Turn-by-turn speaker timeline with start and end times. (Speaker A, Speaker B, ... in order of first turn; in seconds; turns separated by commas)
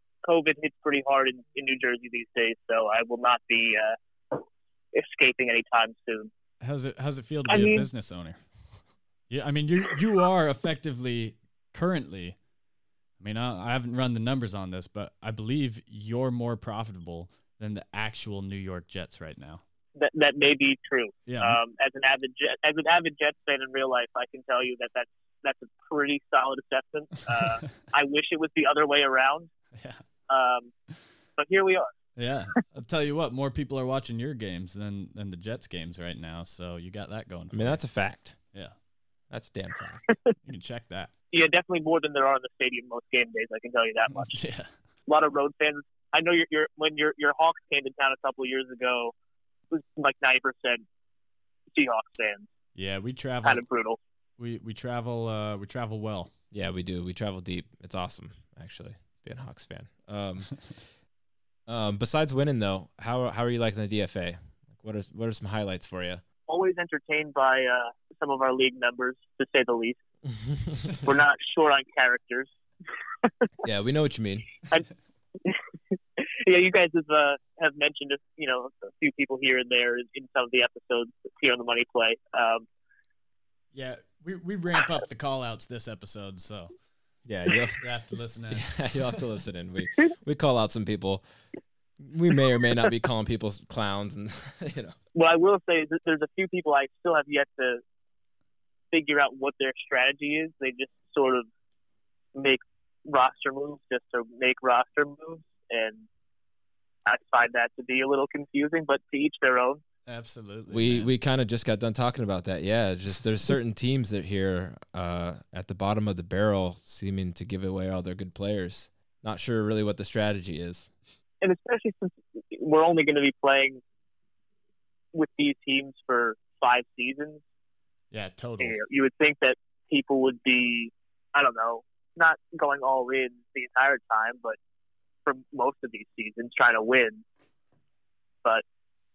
Speaker A: 0.2-6.3, Speaker B: 6.6-8.4, Speaker A: 7.5-7.9, Speaker B: 9.3-12.4, Speaker B: 13.2-19.6, Speaker A: 19.9-29.5, Speaker B: 21.2-21.6, Speaker B: 27.2-27.9, Speaker B: 29.7-30.0, Speaker A: 30.3-30.7, Speaker A: 31.4-31.9, Speaker B: 32.1-37.8, Speaker C: 37.5-38.4, Speaker B: 38.5-38.8, Speaker C: 39.3-40.2, Speaker B: 40.4-41.1, Speaker A: 41.3-44.4, Speaker B: 44.1-44.7, Speaker A: 45.0-49.1, Speaker A: 49.7-50.8, Speaker A: 51.7-52.5, Speaker B: 52.7-53.6, Speaker A: 53.4-54.0, Speaker B: 54.4-56.3, Speaker C: 56.5-60.8, Speaker C: 61.7-66.2, Speaker A: 66.5-70.0, Speaker A: 71.0-72.5, Speaker C: 73.6-74.6, Speaker A: 76.4-82.7, Speaker B: 83.7-86.7, Speaker C: 87.2-87.8, Speaker B: 87.8-89.2, Speaker C: 88.5-91.2, Speaker C: 92.0-95.0, Speaker A: 95.1-97.8, Speaker A: 98.9-101.5, Speaker A: 102.3-106.1, Speaker A: 107.0-109.8, Speaker B: 110.0-111.1, Speaker C: 110.7-120.9, Speaker A: 121.4-123.8, Speaker A: 125.1-127.4, Speaker B: 128.1-128.8, Speaker A: 128.6-134.6, Speaker A: 135.2-137.2